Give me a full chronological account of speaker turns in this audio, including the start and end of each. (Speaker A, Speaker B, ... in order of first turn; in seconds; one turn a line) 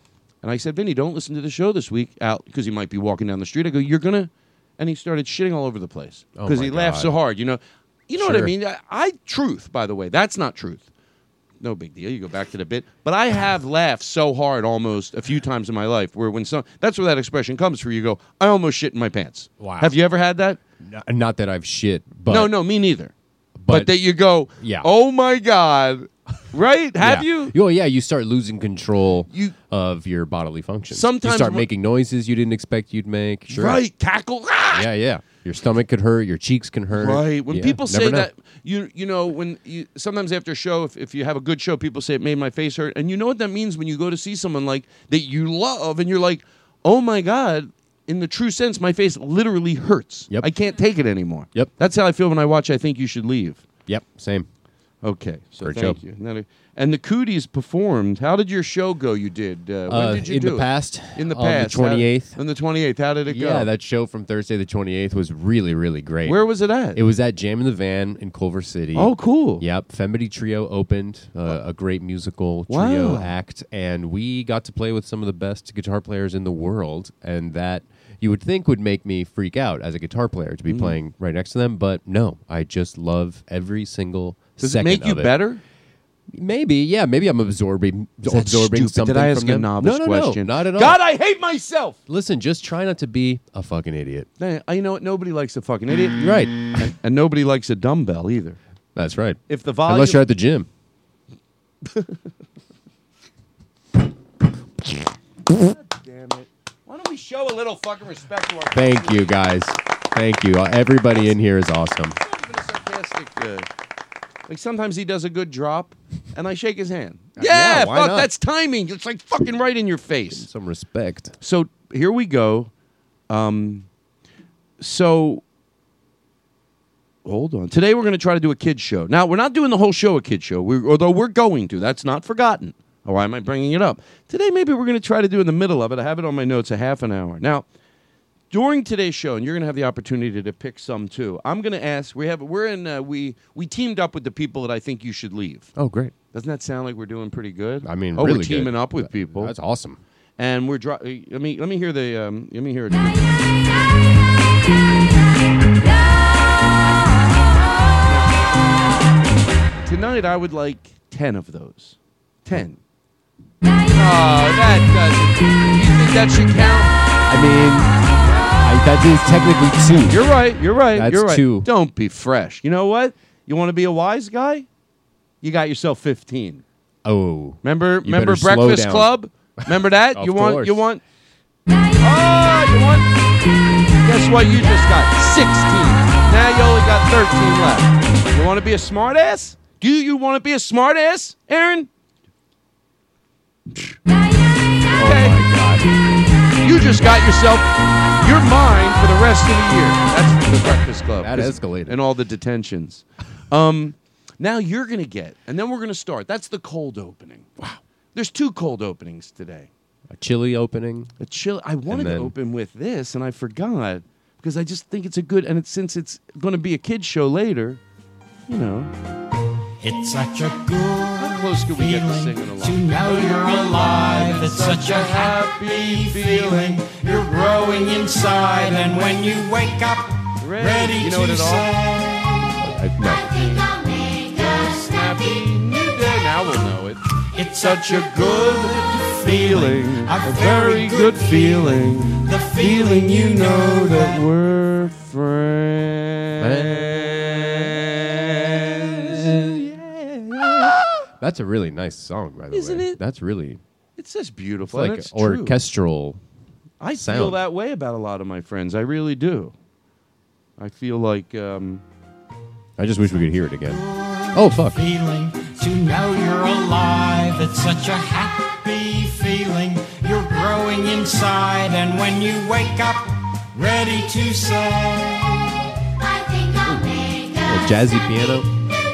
Speaker A: 0.4-10.9
Speaker B: 6.4-7.1
Speaker B: 8.2-8.5
Speaker A: 11.6-20.6
Speaker B: 19.6-19.9
Speaker B: 20.8-22.5
Speaker A: 22.3-23.1
Speaker B: 23.6-23.9
Speaker A: 23.7-27.6
Speaker B: 24.6-24.9
Speaker B: 27.0-33.8
Speaker A: 29.3-29.6
Speaker A: 30.9-31.7
Speaker A: 33.5-34.9
Speaker B: 34.7-38.3
Speaker A: 36.9-53.6
Speaker B: 53.9-54.5
Speaker A: 55.0-63.7
Speaker B: 55.6-56.0
Speaker B: 59.9-62.4
Speaker B: 63.3-66.4
Speaker A: 66.2-67.0
Speaker B: 66.9-85.3
Speaker A: 69.0-69.7
Speaker A: 72.7-73.3
Speaker A: 80.7-81.0
Speaker A: 84.6-85.6
Speaker B: 86.3-91.0
Speaker A: 88.3-92.0
Speaker B: 92.1-94.3
Speaker A: 94.4-98.6
Speaker B: 96.2-96.6
Speaker B: 99.0-100.7
Speaker A: 99.5-100.2
Speaker A: 105.5-109.3
Speaker B: 108.7-112.2
Speaker A: 112.2-113.7
Speaker A: 114.5-120.5
Speaker B: 117.4-118.3
Speaker B: 120.3-121.3
Speaker A: 121.4-122.7
Speaker A: 123.3-123.9
Speaker A: 124.8-125.4
Speaker A: 127.2-137.7
Speaker A: 138.5-145.8
Speaker B: 145.8-146.2
Speaker A: 146.3-149.5
Speaker B: 147.8-150.0
Speaker A: 150.4-153.3
Speaker A: 158.1-158.5
Speaker A: 159.8-162.8
Speaker A: 163.9-166.9
Speaker B: 167.3-167.9
Speaker A: 168.2-168.6
Speaker B: 168.6-170.2
Speaker A: 170.1-174.7
Speaker B: 170.9-171.7
Speaker A: 175.4-176.6
Speaker B: 177.1-179.1
Speaker A: 177.6-181.0
Speaker B: 179.6-180.8
Speaker A: 182.0-183.1
Speaker A: 184.0-191.9
Speaker A: 194.9-195.4
Speaker B: 194.9-195.9
Speaker A: 196.6-207.5
Speaker B: 201.2-202.0
Speaker A: 208.2-209.7
Speaker B: 210.1-211.1
Speaker A: 211.2-217.8
Speaker B: 211.9-212.3
Speaker A: 218.5-218.9
Speaker C: 219.8-232.6
Speaker A: 221.2-226.8
Speaker A: 230.4-231.7
Speaker B: 232.6-233.3
Speaker A: 233.2-237.0
Speaker C: 237.3-244.2
Speaker A: 237.6-250.8
Speaker B: 246.4-247.2
Speaker B: 249.0-249.7
Speaker B: 251.2-253.6
Speaker A: 252.5-253.0
Speaker A: 254.0-255.6
Speaker B: 254.7-256.2
Speaker A: 256.8-259.5
Speaker B: 257.0-257.4
Speaker A: 260.6-261.8
Speaker B: 262.8-263.8
Speaker C: 263.8-275.6
Speaker B: 264.3-264.8
Speaker B: 277.4-278.5